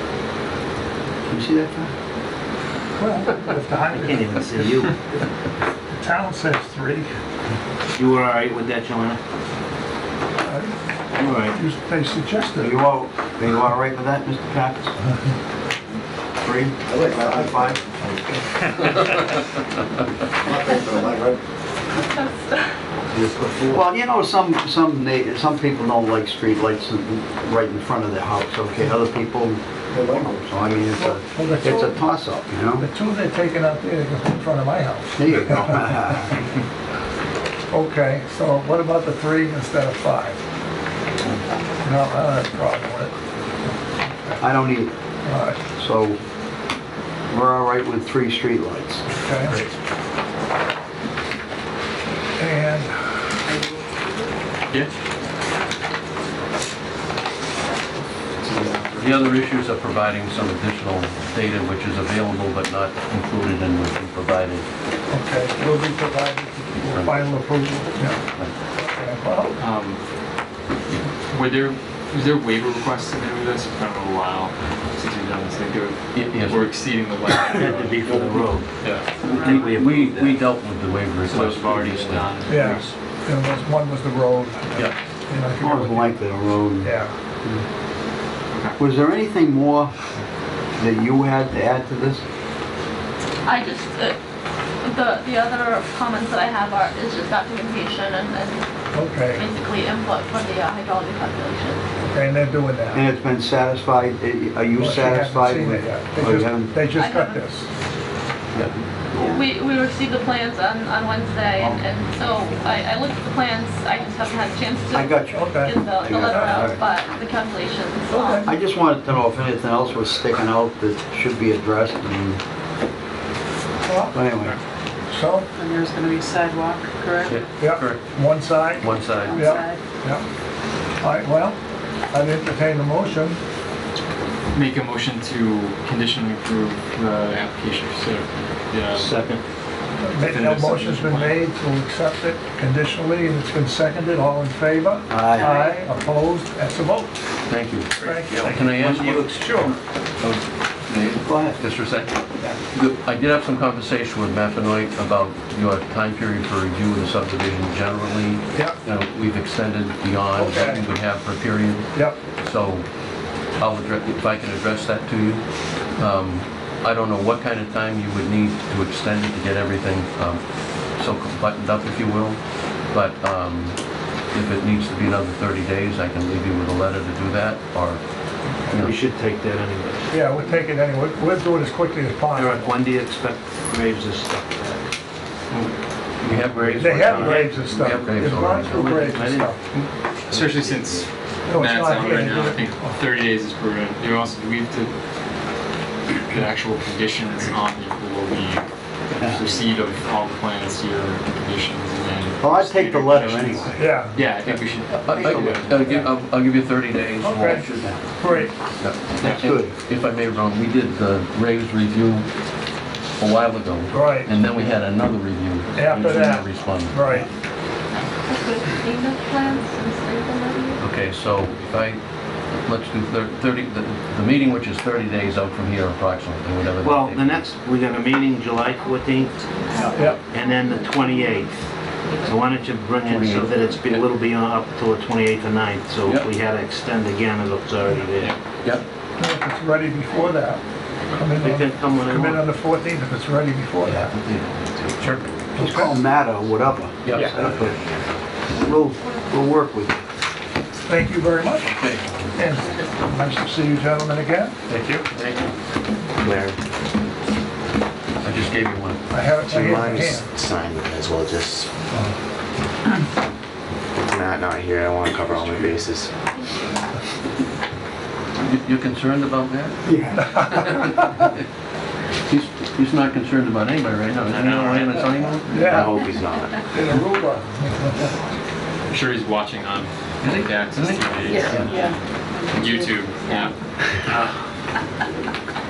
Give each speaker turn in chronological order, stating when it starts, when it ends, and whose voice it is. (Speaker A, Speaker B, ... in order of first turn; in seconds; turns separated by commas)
Speaker A: 1.2-1.9, Speaker B: 3.0-4.8, Speaker C: 3.9-4.9, Speaker B: 5.9-7.1, Speaker C: 7.9-9.2, Speaker B: 10.4-10.7, Speaker C: 11.1-11.6, Speaker B: 11.4-12.8, Speaker A: 12.6-14.9, Speaker A: 16.4-17.8, Speaker D: 20.6-21.2, Speaker D: 21.9-22.7, Speaker A: 23.7-32.9, Speaker B: 30.9-32.0, Speaker B: 32.8-35.9, Speaker A: 35.2-36.4, Speaker B: 37.7-40.4, Speaker B: 41.8-43.1, Speaker B: 44.0-44.5, Speaker A: 44.4-44.9, Speaker B: 45.2-45.6, Speaker A: 45.8-46.2, Speaker A: 47.3-49.0, Speaker B: 49.1-49.6, Speaker B: 52.4-53.3, Speaker E: 58.4-59.3, Speaker F: 59.0-64.7, Speaker B: 65.1-68.2, Speaker F: 66.9-67.3, Speaker B: 68.8-69.6, Speaker E: 69.6-70.0, Speaker E: 71.3-79.1, Speaker F: 76.1-76.7, Speaker C: 77.5-78.7, Speaker C: 79.2-80.5, Speaker F: 79.3-82.3, Speaker E: 81.2-82.9, Speaker B: 82.5-86.2, Speaker A: 85.6-87.6, Speaker B: 86.8-87.1, Speaker E: 88.5-88.8, Speaker A: 88.8-89.9, Speaker A: 90.8-92.2, Speaker D: 93.5-94.2, Speaker D: 94.8-98.6, Speaker B: 98.9-99.5, Speaker D: 99.2-101.8, Speaker B: 102.1-103.0, Speaker A: 102.9-106.8, Speaker B: 104.8-107.7, Speaker D: 106.9-107.4, Speaker A: 108.6-109.4, Speaker D: 109.2-118.4, Speaker A: 114.9-116.8, Speaker B: 115.2-116.7, Speaker B: 118.1-118.5, Speaker A: 118.4-122.4, Speaker B: 123.8-124.2, Speaker A: 124.1-124.6, Speaker B: 125.1-125.5, Speaker G: 125.5-127.4, Speaker F: 127.2-128.0, Speaker B: 127.6-130.2, Speaker F: 128.8-129.5, Speaker G: 129.3-129.8, Speaker B: 131.0-131.6, Speaker B: 132.1-133.4, Speaker E: 134.5-139.3, Speaker C: 138.9-139.4, Speaker B: 140.0-147.1, Speaker E: 140.2-141.4, Speaker A: 145.1-145.6, Speaker F: 147.5-149.2, Speaker B: 148.0-149.7, Speaker F: 150.2-162.8, Speaker A: 151.2-151.6, Speaker B: 160.3-160.9, Speaker B: 161.9-162.2, Speaker F: 163.6-165.4, Speaker F: 165.9-170.4, Speaker F: 170.9-172.4, Speaker F: 172.9-173.8, Speaker F: 174.3-178.0, Speaker F: 178.7-178.9, Speaker C: 178.7-180.1, Speaker B: 180.1-182.8, Speaker C: 182.3-184.9, Speaker F: 186.2-189.0, Speaker C: 186.2-189.6, Speaker B: 186.8-189.6, Speaker E: 189.7-194.9, Speaker C: 190.3-191.1, Speaker B: 191.5-193.0, Speaker E: 196.3-198.7, Speaker A: 199.2-199.6, Speaker E: 199.2-206.1, Speaker A: 202.4-204.0, Speaker B: 203.8-204.2, Speaker F: 204.9-208.0, Speaker A: 205.2-205.5, Speaker B: 207.2-208.6, Speaker F: 208.8-212.3, Speaker A: 209.2-209.7, Speaker F: 213.2-217.1, Speaker B: 213.9-214.4, Speaker E: 215.7-216.1, Speaker B: 215.7-217.3, Speaker D: 218.2-220.8, Speaker F: 220.8-227.4, Speaker C: 226.8-229.3, Speaker D: 228.8-231.5, Speaker B: 229.9-230.2, Speaker C: 230.3-231.5, Speaker D: 232.1-232.4, Speaker C: 232.2-238.3, Speaker F: 233.0-234.1, Speaker F: 236.0-236.3, Speaker B: 239.2-240.6, Speaker B: 241.1-244.1, Speaker C: 241.4-242.5, Speaker F: 243.8-245.2, Speaker B: 245.5-246.0, Speaker A: 245.6-247.8, Speaker F: 247.0-248.1, Speaker H: 247.2-248.1, Speaker D: 248.5-249.2, Speaker A: 248.5-250.0, Speaker B: 250.8-251.8, Speaker F: 251.6-252.3, Speaker B: 252.3-254.6, Speaker D: 252.6-253.1, Speaker F: 254.7-255.4, Speaker H: 256.2-256.6, Speaker F: 258.2-259.0, Speaker B: 259.1-260.3, Speaker H: 259.3-261.7, Speaker H: 264.0-266.1, Speaker F: 268.4-269.8, Speaker B: 270.1-271.0, Speaker F: 270.4-270.9, Speaker F: 272.3-276.0, Speaker C: 274.3-274.7, Speaker H: 275.3-276.7, Speaker B: 275.5-276.1, Speaker B: 276.7-278.0, Speaker E: 278.9-281.9, Speaker F: 280.2-281.8, Speaker G: 281.2-283.5, Speaker E: 282.5-284.3